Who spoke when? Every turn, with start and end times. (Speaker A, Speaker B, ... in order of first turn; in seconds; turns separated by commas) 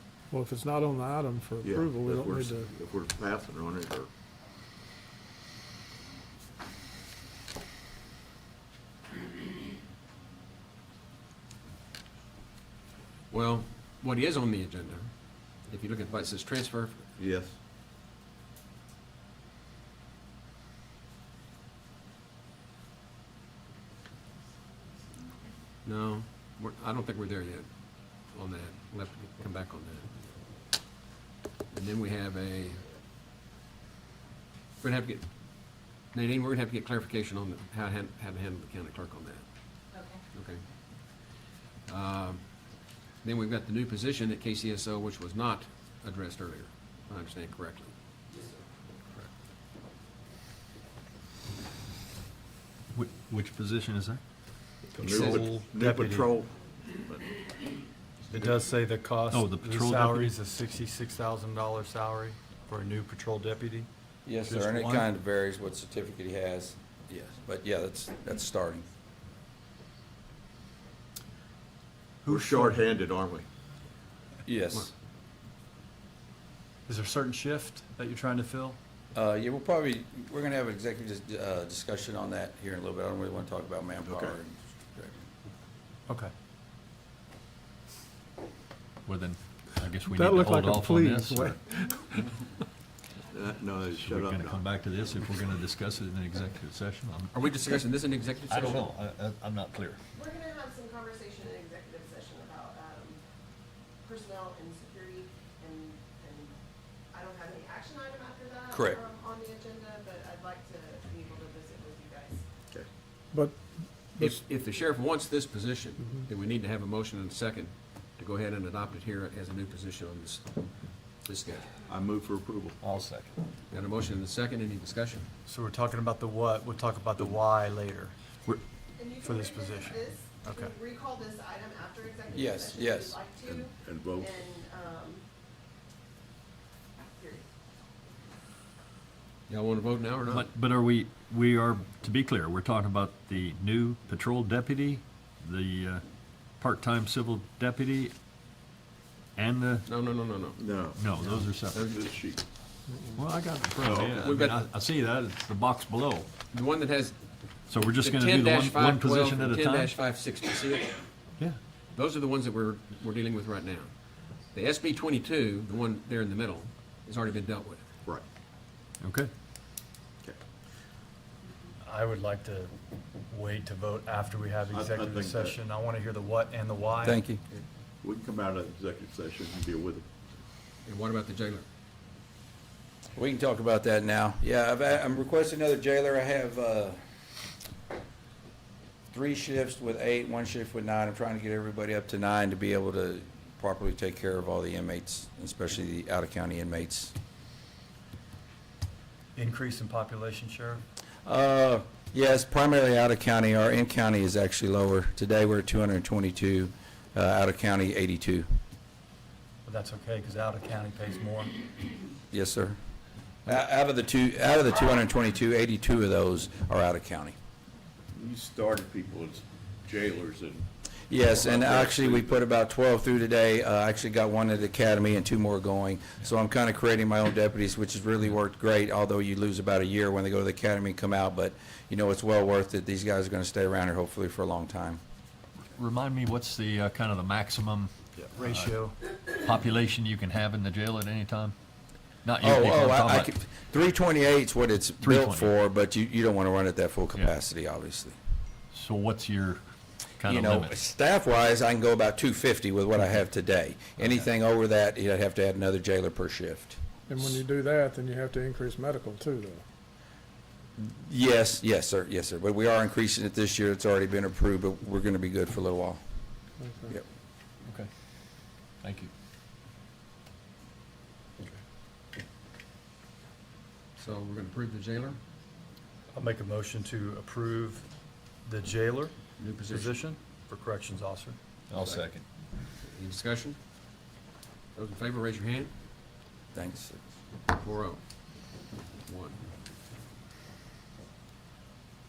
Speaker A: 0.3-2.7, Speaker B: 1.6-4.1, Speaker C: 13.3-17.0, Speaker B: 17.2-17.6, Speaker C: 25.8-30.2, Speaker C: 31.7-32.9, Speaker C: 34.8-39.5, Speaker C: 40.3-41.3, Speaker C: 41.9-48.0, Speaker D: 52.9-54.2, Speaker E: 55.0-56.3, Speaker B: 55.0-57.3, Speaker E: 58.3-63.9, Speaker D: 59.3-60.3, Speaker F: 64.3-68.9, Speaker E: 64.5-65.1, Speaker E: 72.2-72.8, Speaker B: 72.2-73.5, Speaker F: 74.5-74.9, Speaker E: 76.9-78.8, Speaker F: 79.2-85.2, Speaker B: 84.1-84.4, Speaker D: 89.1-91.6, Speaker A: 90.1-92.5, Speaker B: 93.3-94.6, Speaker D: 93.9-97.3, Speaker C: 97.3-98.9, Speaker D: 98.5-100.0, Speaker G: 100.2-103.2, Speaker G: 104.0-106.6, Speaker G: 107.1-112.5, Speaker F: 108.7-109.0, Speaker A: 113.3-114.4, Speaker C: 114.2-121.7, Speaker B: 121.9-122.8, Speaker D: 122.8-123.3, Speaker C: 123.7-125.3, Speaker E: 125.5-128.1, Speaker G: 129.0-135.2, Speaker E: 129.2-130.7, Speaker F: 132.3-133.2, Speaker B: 133.4-134.4, Speaker G: 137.2-137.5, Speaker C: 139.5-140.5, Speaker D: 140.3-146.0, Speaker D: 146.6-148.1, Speaker D: 149.4-149.8, Speaker C: 149.9-150.6, Speaker B: 150.6-151.0, Speaker D: 150.9-151.8, Speaker C: 151.2-152.0, Speaker B: 151.8-152.4, Speaker D: 153.2-156.3, Speaker B: 153.8-154.3, Speaker C: 154.0-154.6, Speaker C: 156.5-157.2, Speaker D: 157.7-159.9, Speaker C: 157.9-161.1, Speaker C: 161.9-163.9, Speaker C: 164.5-167.8, Speaker D: 169.0-169.3, Speaker E: 171.8-172.7, Speaker E: 173.3-177.2, Speaker B: 174.7-175.6, Speaker F: 177.0-177.4, Speaker B: 178.0-180.1, Speaker C: 180.8-181.7, Speaker F: 183.2-187.0, Speaker F: 189.1-197.1, Speaker E: 199.4-200.8, Speaker F: 201.2-208.5, Speaker E: 209.7-211.5, Speaker F: 212.3-212.8, Speaker F: 213.5-217.3, Speaker B: 218.1-220.7, Speaker F: 221.1-235.0, Speaker B: 221.2-222.4, Speaker D: 235.8-238.8, Speaker E: 238.3-239.0, Speaker D: 239.3-241.6, Speaker D: 242.2-243.3, Speaker F: 242.4-248.2, Speaker D: 245.0-245.5, Speaker D: 248.7-249.6, Speaker D: 250.2-250.8, Speaker F: 250.2-256.8, Speaker A: 257.1-259.6, Speaker F: 260.8-266.0, Speaker A: 266.6-267.0, Speaker D: 268.8-269.1, Speaker C: 274.0-275.2, Speaker E: 276.1-277.9, Speaker E: 278.4-279.1, Speaker C: 279.4-280.0, Speaker E: 279.7-281.4, Speaker D: 281.7-282.2, Speaker C: 281.8-282.0, Speaker C: 282.7-283.6, Speaker C: 284.8-285.7, Speaker F: 286.5-287.1, Speaker C: 287.5-288.4, Speaker C: 289.1-289.4